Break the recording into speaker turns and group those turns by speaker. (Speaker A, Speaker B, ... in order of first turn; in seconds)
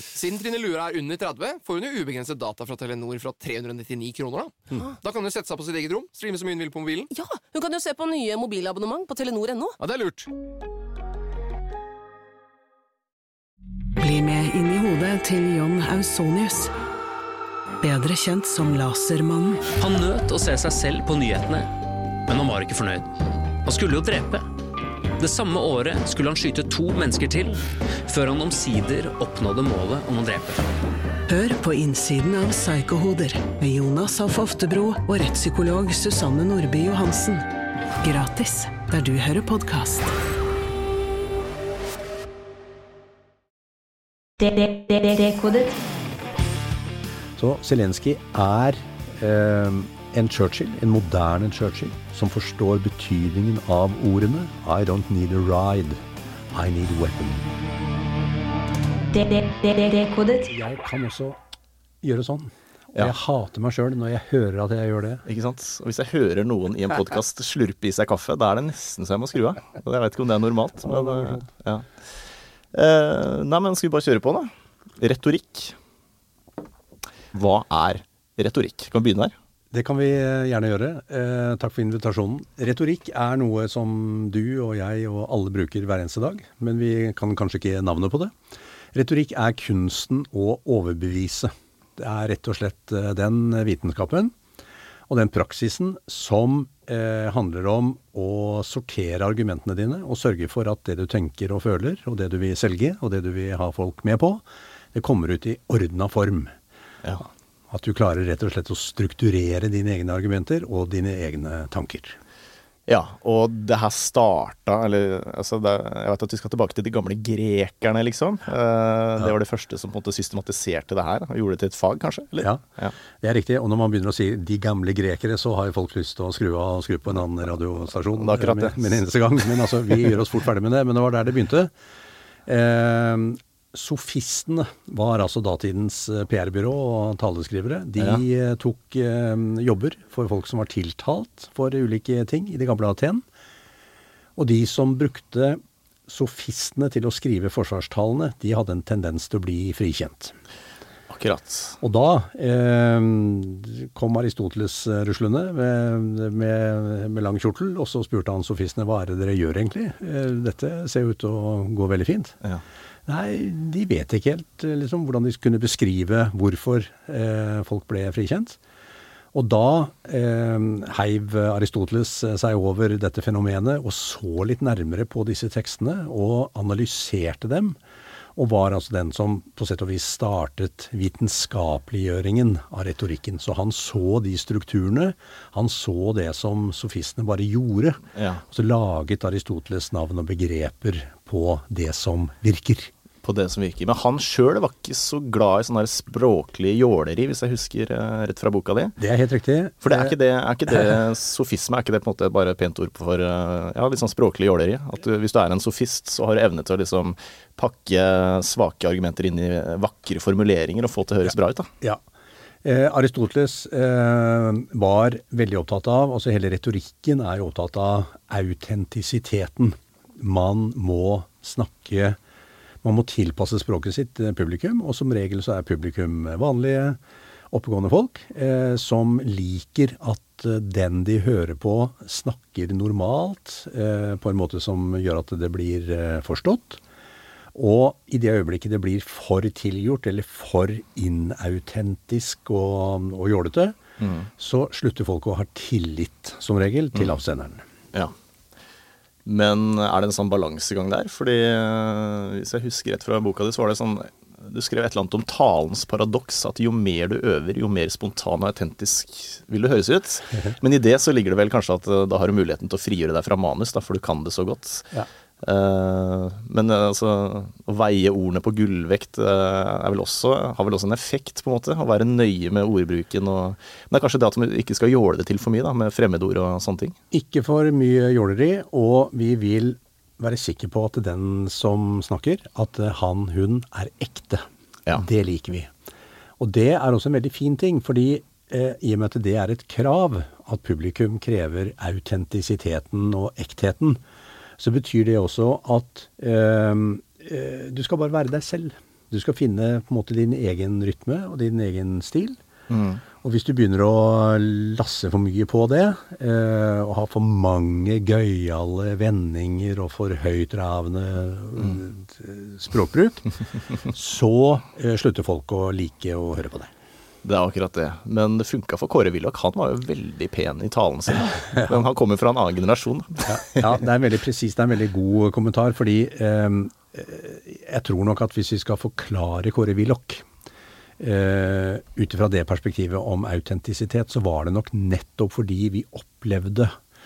Speaker A: 0.1-7.1, 9.8-10.3
Speaker B: 7.1-9.8
Speaker C: 14.0-16.7, 17.8-19.7, 31.3-37.5, 38.0-40.1
Speaker D: 19.7-21.7, 22.3-23.1, 23.6-24.5, 25.2-30.7
Speaker E: 44.4-45.7, 59.1-60.5
Speaker F: 47.4-56.0, 56.5-57.5, 60.5-61.4, 62.0-65.2, 70.8-71.5, 79.7-88.3, 88.9-94.3, 95.1-106.5, 107.7-112.2, 123.2-131.7, 132.4-143.2, 144.3-150.3, 151.8-162.3, 163.1-168.6, 169.3-177.8, 178.3-192.9, 199.0-200.2, 212.6-222.2, 222.8-227.0, 227.5-236.8, 237.5-243.8, 244.4-247.7, 277.1-285.7, 286.4-294.0, 294.6-302.4, 303.2-313.2, 313.9-316.7, 323.3-330.2, 331.0-336.7
Speaker G: 65.3-75.8, 77.3-79.3, 112.9-122.9, 128.2-129.0, 151.1-151.8, 188.1-188.4, 193.2-198.9, 199.8-211.7, 244.0-244.3, 249.2-276.9, 302.7-303.0, 317.2-323.8